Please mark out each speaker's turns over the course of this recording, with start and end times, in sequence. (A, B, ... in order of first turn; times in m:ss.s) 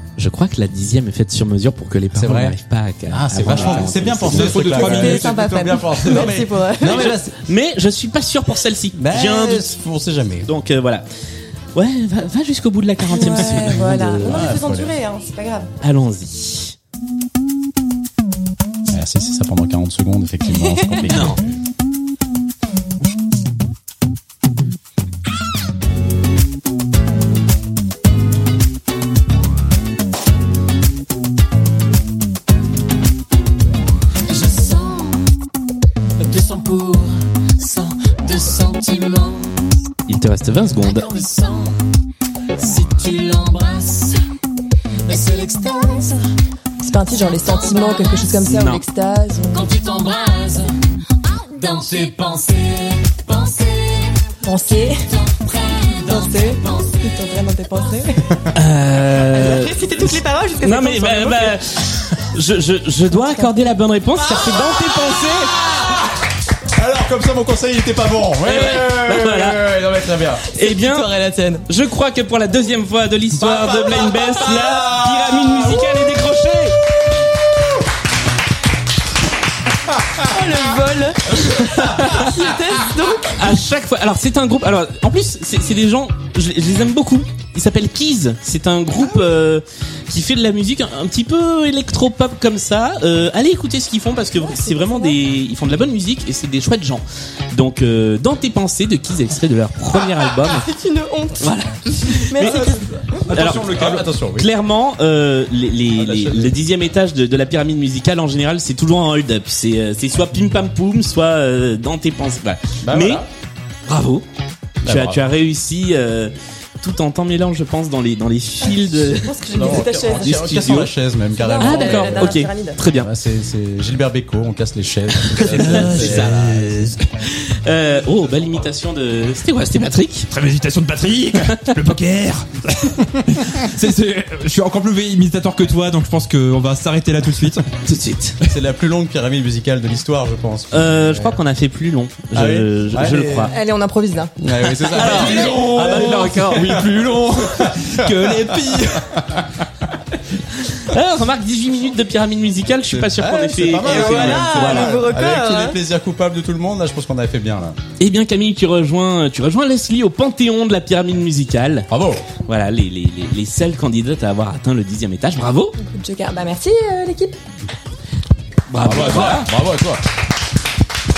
0:00.2-0:04.8 A
0:02.1-0:02.6 B
0:03.1-0:07.3 B
0:03.5-0:05.3 C
0:04.7-0:07.1 D
0:06.8-0:09.7 A
0:08.9-0:10.5 B
0:10.4-0:11.0 A
0:11.7-0:14.5 A
0:13.1-0:15.7 D
0:14.2-0:14.9 B
0:15.8-0:16.7 A
0:18.9-0:21.5 B
0:20.6-0:20.9 D
0:21.1-0:21.4 A
0:34.4-0:35.0 E
0:36.2-0:39.5 E
0:40.1-0:41.2 A
0:41.0-0:41.7 E
0:42.6-0:44.2 E
0:45.1-0:46.2 E
0:46.8-0:49.7 D
0:48.5-0:48.8 A
0:49.6-0:50.7 E
0:51.6-0:54.2 E
0:54.4-0:55.1 D
0:55.2-0:56.1 E
0:56.0-0:58.4 D
0:58.5-1:05.6 A
0:59.3-1:01.5 D
1:03.1-1:03.8 D
1:05.5-1:10.5 B
1:08.4-1:09.7 A
1:10.4-1:11.1 A
1:10.6-1:11.6 D
1:11.7-1:16.8 A
1:13.4-1:15.9 B
1:20.2-1:23.5 D
1:21.4-1:22.3 B
1:21.6-1:22.6 A
1:23.2-1:40.7 A
1:34.3-1:35.2 D
1:40.4-1:41.5 D
1:41.4-1:42.7 A
1:42.1-1:43.2 D
1:42.4-1:44.5 B
1:43.3-1:53.2 A
1:45.9-1:46.6 B
1:52.8-1:53.3 B
1:53.9-1:54.2 A
1:54.8-1:55.3 B
1:54.8-2:00.9 A
1:58.9-2:00.5 D
1:59.5-2:02.4 B
2:01.3-2:02.8 D
2:01.6-2:03.1 A
2:02.9-2:06.8 B
2:05.3-2:10.3 A
2:10.3-2:17.6 C
2:11.5-2:11.8 A
2:17.8-2:18.5 A
2:18.4-2:21.4 B
2:20.7-2:23.5 A
2:22.3-2:23.5 B
2:23.4-2:24.3 D
2:24.4-2:29.2 B
2:24.8-2:26.8 A
2:25.0-2:29.0 C
2:30.5-2:35.0 A
2:32.9-2:37.8 B
2:33.8-2:35.8 D
2:38.0-2:41.9 A
2:41.9-2:42.3 B
2:42.4-2:45.8 A
2:45.8-2:47.4 D
2:48.7-2:49.5 A
2:48.8-2:50.0 B